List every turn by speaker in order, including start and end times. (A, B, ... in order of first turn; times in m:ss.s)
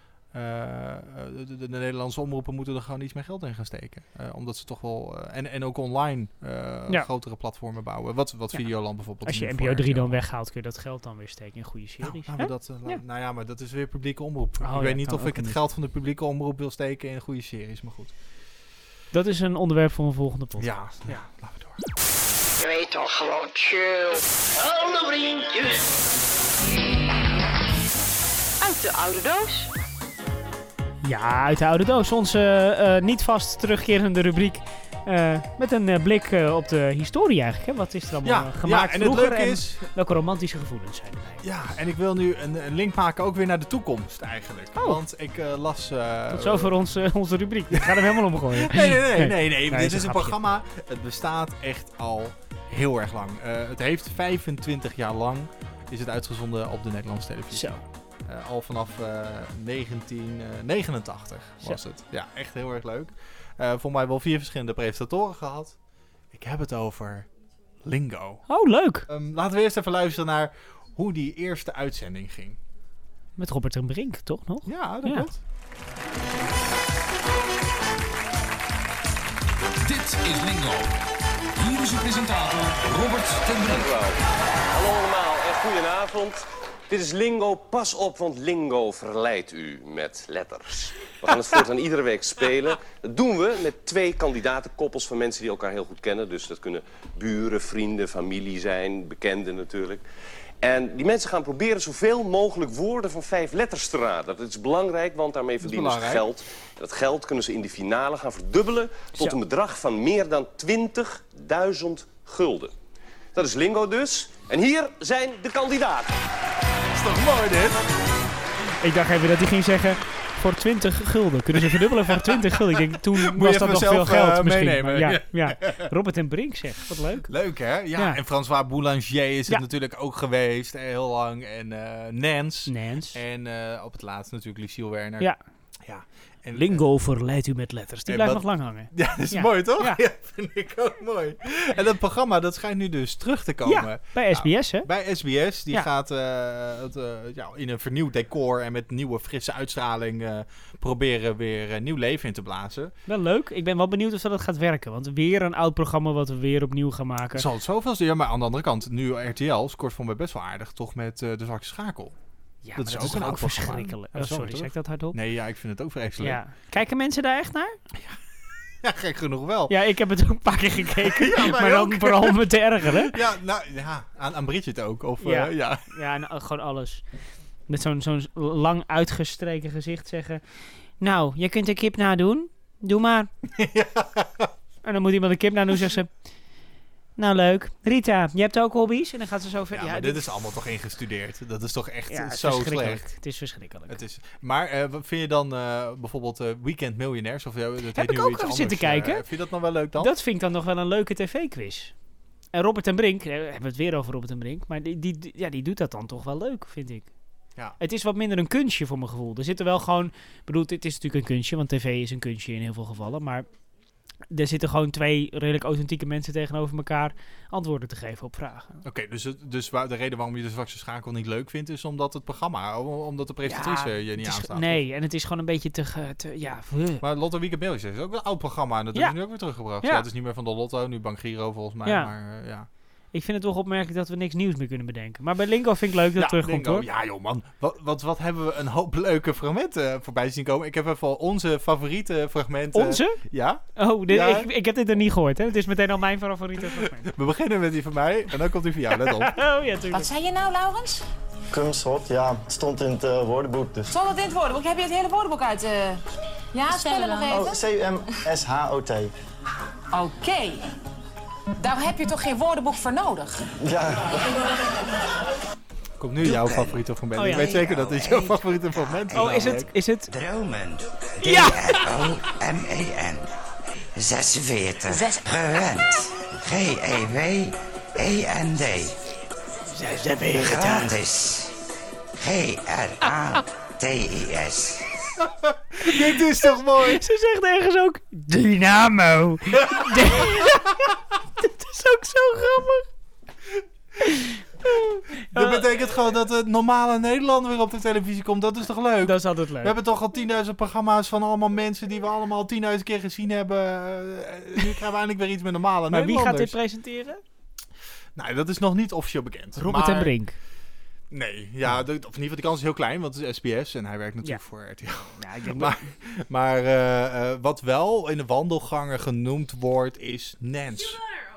0:00.3-0:10.2 A
0:09.2-0:13.0 B
0:12.0-0:18.1 A
0:14.6-0:15.6 B
0:19.1-0:21.2 B
0:20.6-0:21.9 A
0:22.6-0:25.9 C
0:28.6-0:29.7 C
0:31.0-0:41.4 B
0:38.2-0:39.9 A
0:41.4-0:46.7 A
0:44.7-0:45.0 B
0:46.3-0:50.4 B
0:47.7-1:05.8 A
0:57.5-0:57.8 B
1:06.3-1:07.3 A
1:07.8-1:08.4 A
1:08.5-1:09.1 B
1:09.1-1:12.6 A
1:13.4-1:15.3 B
1:14.6-1:15.4 A
1:19.8-1:20.9 D
1:21.6-1:23.9 D
1:23.6-1:24.2 E
1:24.7-1:40.0 E
1:40.6-1:52.7 E
1:45.6-1:46.2 A
1:53.3-1:56.1 E
1:56.9-1:57.8 A
1:58.8-2:07.3 B
2:01.5-2:05.9 A
2:07.3-2:15.3 A
2:12.6-2:13.2 B
2:15.8-2:16.8 A
2:16.5-2:20.0 B
2:18.1-2:32.9 A
2:23.6-2:24.9 B
2:33.1-2:37.4 B
2:37.3-2:42.2 A
2:42.6-2:45.2 B
2:42.7-2:46.4 A
2:46.2-2:47.8 B
2:47.9-2:48.2 A
2:48.8-2:49.8 A
2:49.7-2:53.2 B
2:50.9-2:55.9 A
2:55.2-2:57.1 B
2:57.7-3:00.4 B
3:01.0-3:03.3 B
3:03.4-3:04.5 A
3:04.8-3:06.2 B
3:07.2-3:10.2 B
3:09.7-3:13.1 A
3:12.1-3:14.0 B
3:13.9-3:20.1 A
3:17.9-3:19.3 B
3:20.0-3:21.9 B
3:22.5-3:27.1 B
3:27.8-3:33.5 B
3:34.3-3:38.8 B
3:38.8-3:44.8 A
3:43.4-3:47.0 B
3:47.0-3:52.7 A
3:49.8-3:50.0 B
3:51.8-3:52.1 B
3:53.1-3:56.9 B
3:56.2-4:04.5 A
4:02.7-4:03.2 B
4:03.7-4:07.1 B
4:06.7-4:09.3 A
4:09.0-4:10.1 B
4:09.9-4:11.0 F
4:11.5-4:13.9 G
4:13.9-4:16.0 F
4:16.5-4:17.6 F
4:17.1-4:19.1 G
4:19.9-4:20.6 F
4:21.6-4:23.5 F
4:23.6-4:24.3 G
4:26.0-4:29.7 A
4:26.2-4:29.5 H
4:27.2-4:27.5 B
4:29.1-4:30.1 B
4:30.1-4:33.2 H
4:31.2-4:31.9 A
4:33.9-4:39.0 H
4:34.9-4:35.2 F
4:39.8-4:40.9 B
4:40.3-4:41.5 H
4:42.2-4:44.9 H
4:45.3-4:47.0 A
4:45.9-4:52.9 B
4:49.6-4:50.6 A
4:54.0-4:54.4 B
4:55.3-5:06.5 A
4:55.3-4:55.6 B
4:59.0-4:59.7 B
5:05.9-5:07.2 B
5:08.2-5:10.1 A
5:09.6-5:10.4 B
5:11.1-5:21.0 A
5:15.2-5:15.8 B